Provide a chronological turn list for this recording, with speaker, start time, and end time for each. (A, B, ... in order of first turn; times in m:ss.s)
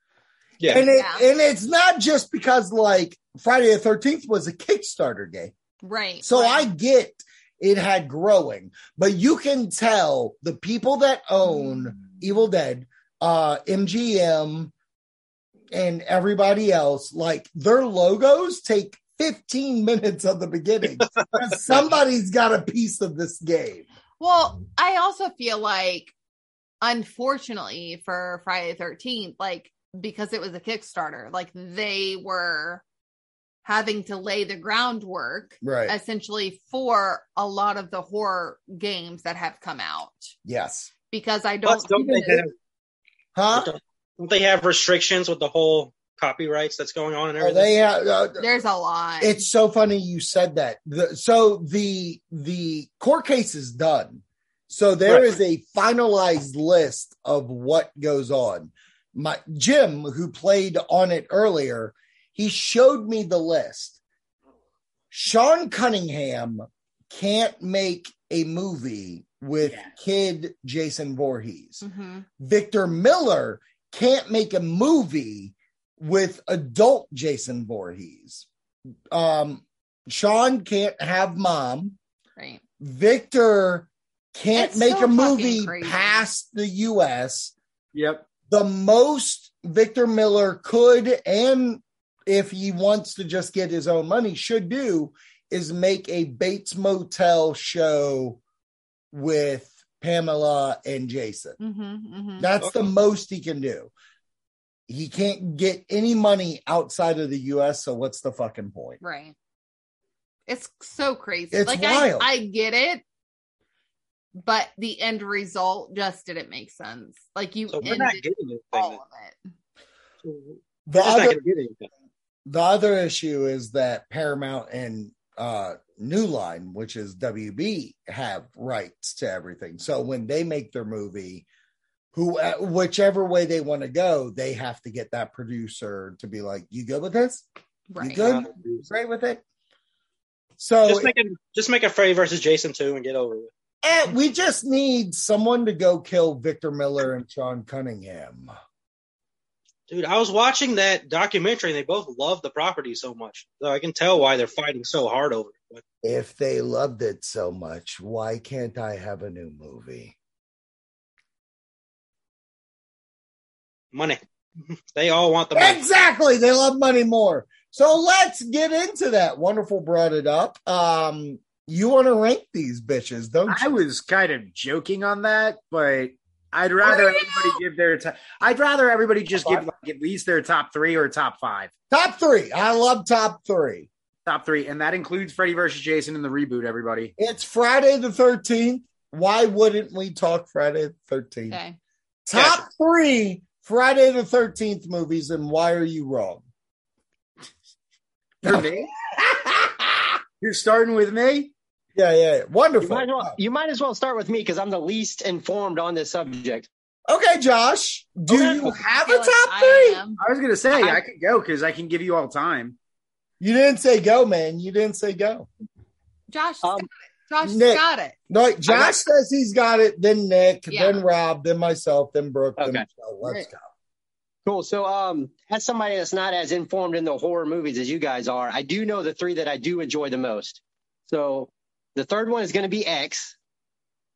0:00.6-0:00.8 A
0:00.7-0:05.5 B
0:00.8-0:01.2 C
0:05.8-0:06.7 C
0:06.2-0:14.7 B
0:15.7-0:23.9 B
0:24.2-0:26.1 C
0:26.8-0:32.8 C
0:33.6-0:40.3 C
0:35.6-0:36.0 B
0:40.4-0:40.9 B
0:41.1-0:42.4 C
0:41.6-0:42.5 A
0:43.4-0:43.7 B
0:43.5-0:47.7 A
0:47.4-0:48.5 B
0:48.4-0:49.4 C
0:49.2-1:04.0 B
0:55.1-0:55.4 A
1:05.1-1:11.8 B
1:09.6-1:09.9 D
1:11.8-1:12.3 C
1:12.4-1:18.5 B
1:19.1-1:22.0 B
1:22.8-1:27.5 B
1:24.6-1:26.2 C
1:27.9-1:28.2 D
1:28.5-1:38.4 B
1:39.1-1:41.6 B
1:41.6-1:42.5 C
1:42.4-1:43.9 B
1:44.9-1:49.0 B
1:49.0-1:49.4 C
1:50.5-1:53.0 C
1:51.5-1:52.3 B
1:54.4-1:59.4 C
1:57.7-1:59.0 A
2:00.2-2:01.8 A
2:00.9-2:01.4 B
2:02.5-2:11.5 B
2:12.1-2:17.4 B
2:17.9-2:18.2 C
2:18.0-2:19.4 B
2:18.2-2:18.5 A
2:20.6-2:21.1 B
2:20.9-2:23.5 A
2:23.8-2:28.5 B
2:29.9-2:35.8 A
2:36.0-2:40.2 B
2:43.9-2:44.2 A
2:44.9-2:45.8 A
2:45.6-2:53.7 B
2:53.5-3:01.7 D
2:56.8-2:57.3 B
2:59.4-2:59.7 B
3:01.9-3:03.9 B
3:04.3-3:07.1 D
3:07.2-3:11.6 B
3:11.5-3:11.8 C
3:12.3-3:16.4 B
3:12.3-3:12.6 D
3:18.4-3:18.9 D
3:18.4-3:20.2 B
3:20.4-3:21.5 D
3:22.0-3:23.4 B
3:22.8-3:26.7 E
3:27.1-3:30.0 B
3:29.0-3:30.2 C
3:30.2-3:32.8 D
3:33.4-3:35.5 B
3:36.3-3:38.2 C
3:37.4-3:43.6 B
3:38.7-3:38.9 D
3:40.7-3:41.0 C
3:42.6-3:43.4 E
3:44.5-3:53.4 E